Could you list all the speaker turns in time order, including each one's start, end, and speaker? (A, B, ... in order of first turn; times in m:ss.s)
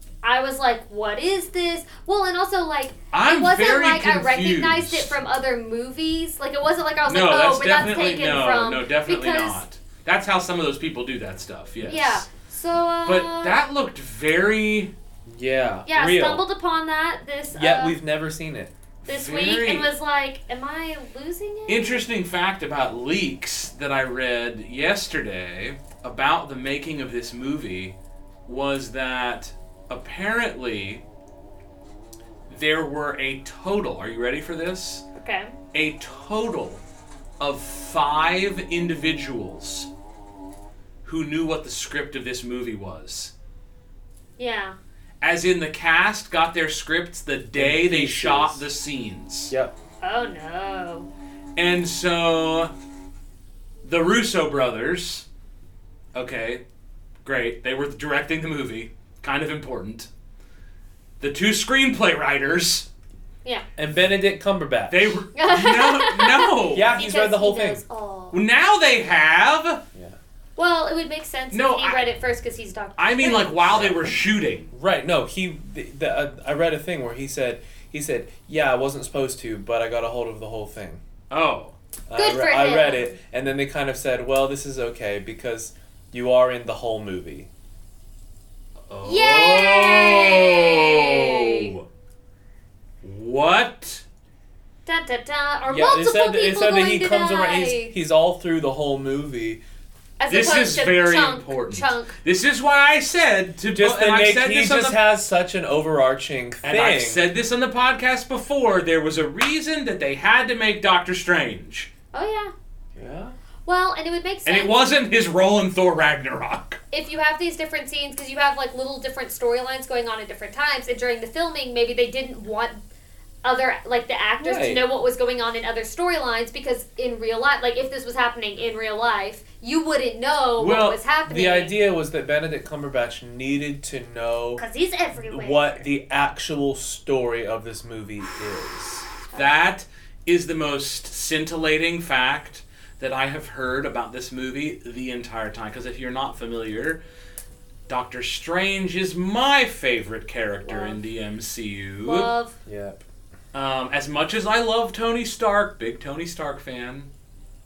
0:00.2-0:09.6 A
0:03.1-0:05.2 B
0:07.1-0:12.2 B
0:11.8-0:13.6 A
0:13.0-0:14.9 B
0:15.3-0:16.4 C
0:15.9-0:18.0 A
0:17.5-0:18.7 C
0:19.0-0:19.9 B
0:19.0-0:22.0 A
0:21.7-0:27.9 B
0:28.4-0:31.0 B
0:32.5-0:35.0 B
0:35.2-0:35.5 A
0:35.7-0:36.8 B
0:37.4-0:39.9 B
0:41.0-0:43.3 B
0:44.4-0:44.8 A
0:45.2-0:49.5 B
0:47.5-0:48.6 C
0:50.0-0:51.1 A
0:51.6-0:52.7 B
0:53.8-0:55.2 B
0:56.1-0:56.6 B
0:57.2-1:00.1 B
1:01.2-1:02.9 B
1:03.8-1:05.2 C
1:04.9-1:06.9 B
1:05.4-1:08.4 A
1:06.7-1:07.8 C
1:08.3-1:09.8 B
1:10.6-1:13.8 A
1:11.5-1:12.1 B
1:13.0-1:14.7 B
1:13.7-1:14.1 C
1:14.7-1:21.0 C
1:21.3-1:21.8 B
1:22.1-1:27.5 C
1:22.1-1:23.1 A
1:28.9-1:31.8 B
1:29.0-1:31.7 A
1:33.0-1:34.0 B
1:34.8-1:37.9 A
1:35.7-1:39.6 C
1:40.2-1:42.2 A
1:40.3-1:45.0 B
1:43.7-1:47.2 C
1:46.6-1:51.9 B
1:52.1-1:52.5 A
1:53.0-1:53.4 C
1:53.6-1:54.8 A
1:54.4-1:56.8 B
1:56.9-2:02.8 A
2:03.4-2:11.8 A
2:04.4-2:04.8 C
2:10.6-2:11.0 B
2:11.2-2:14.6 C
2:14.6-2:15.8 A
2:15.2-2:19.1 C
2:19.3-2:27.0 B
2:27.9-2:32.3 B
2:30.6-2:31.0 A
2:32.0-2:32.6 A
2:32.6-2:33.0 C
2:33.5-2:37.1 B